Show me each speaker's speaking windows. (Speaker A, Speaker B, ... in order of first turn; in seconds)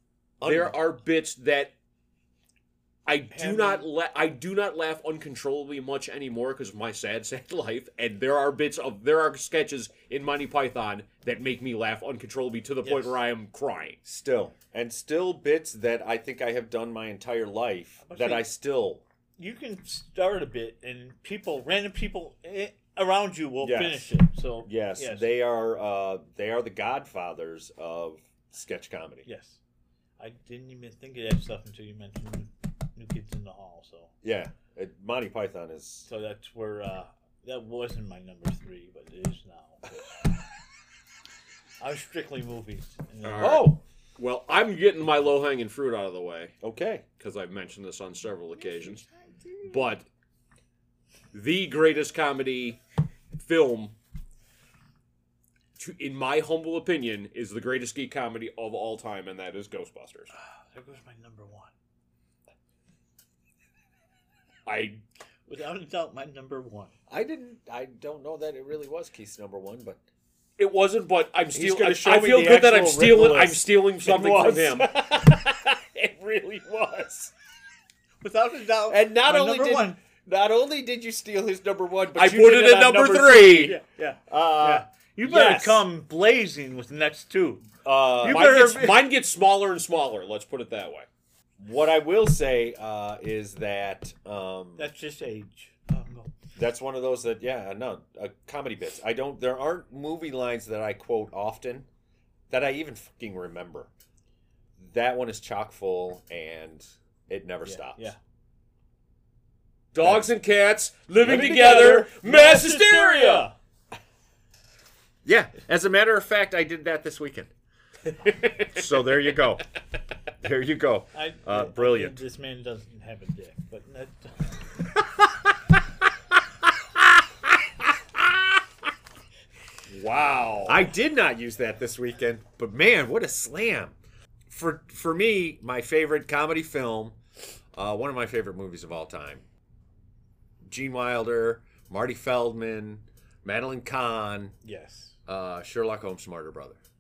Speaker A: 0.4-0.8, 14.1-19.0, 23.6-24.1, 24.6-29.2, 34.2-36.1, 43.4-43.8, 46.6-47.0, 67.1-70.0, 71.5-77.3, 78.9-85.8, 87.8-88.7, 91.6-94.9, 96.6-101.9, 102.5-103.9, 104.8-108.1, 111.2-112.1, 115.2-117.5, 118.7-119.6, 120.4-122.2, 128.1-128.4, 130.7-133.9, 134.5-137.2, 137.8-139.4, 140.6-144.5, 145.3-146.8
Speaker B: 0.4-1.7, 3.1-14.0, 43.2-46.5, 47.2-49.0, 49.6-50.0, 51.3-52.8, 53.3-54.0, 55.8-60.3, 64.7-65.0, 70.6-75.6, 76.1-77.2, 82.1-83.8, 88.2-91.1, 109.9-113.5, 118.2-118.7, 129.9-130.9
Speaker C: 3.3-3.9, 12.8-13.2, 18.0-18.5, 19.4-25.3, 29.2-29.6, 30.2-34.1, 36.1-40.2, 41.8-43.7, 60.4-61.7, 65.5-66.9, 78.2-80.0, 83.6-87.7, 88.2-89.1, 94.8-96.3, 107.6-108.2, 111.9-113.5, 121.1-124.5, 144.6-145.2